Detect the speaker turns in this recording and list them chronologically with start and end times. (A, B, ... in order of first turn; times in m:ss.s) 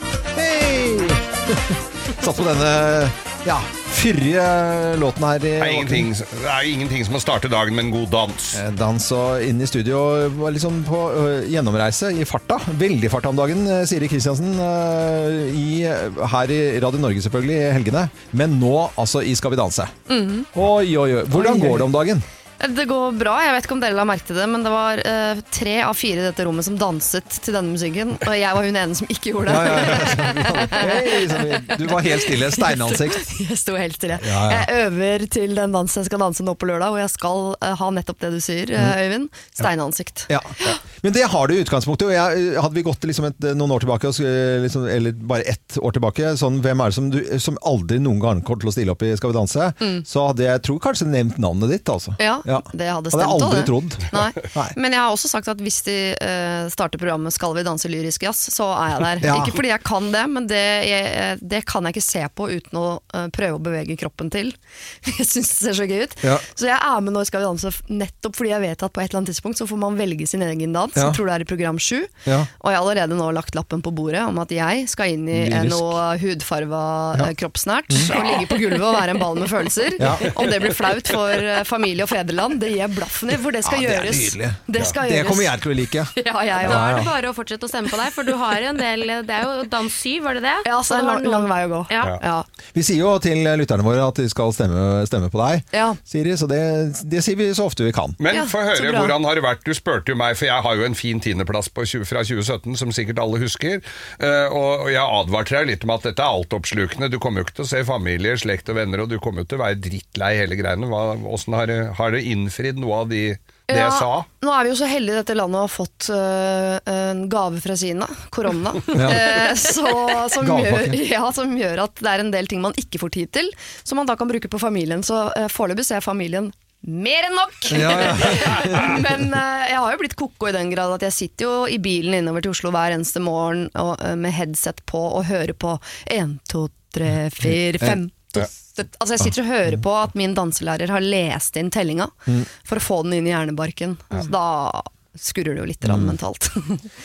0:00.4-0:06.1 A
0:05.6-0:08.6 B
0:08.5-0:19.9 A
0:20.1-0:20.5 C
0:20.5-0:22.2 A
0:21.3-0:21.9 C
0:22.6-0:40.8 C
0:29.4-0:33.3 A
0:34.2-0:34.7 A
0:40.3-0:54.8 A
0:52.2-1:25.6 C
0:59.2-0:59.6 A
1:15.3-1:16.0 A
1:20.0-1:20.3 A
1:23.6-1:27.1 A
1:26.1-1:27.1 C
1:26.5-1:32.2 D
1:30.6-1:32.5 C
1:32.7-1:38.2 A
1:35.7-1:36.0 C
1:38.2-1:54.3 B
1:38.3-1:39.2 C
1:53.7-2:26.9 C
1:58.9-1:59.4 A
2:00.4-2:01.0 A
2:07.7-2:09.0 A
2:25.8-2:26.2 A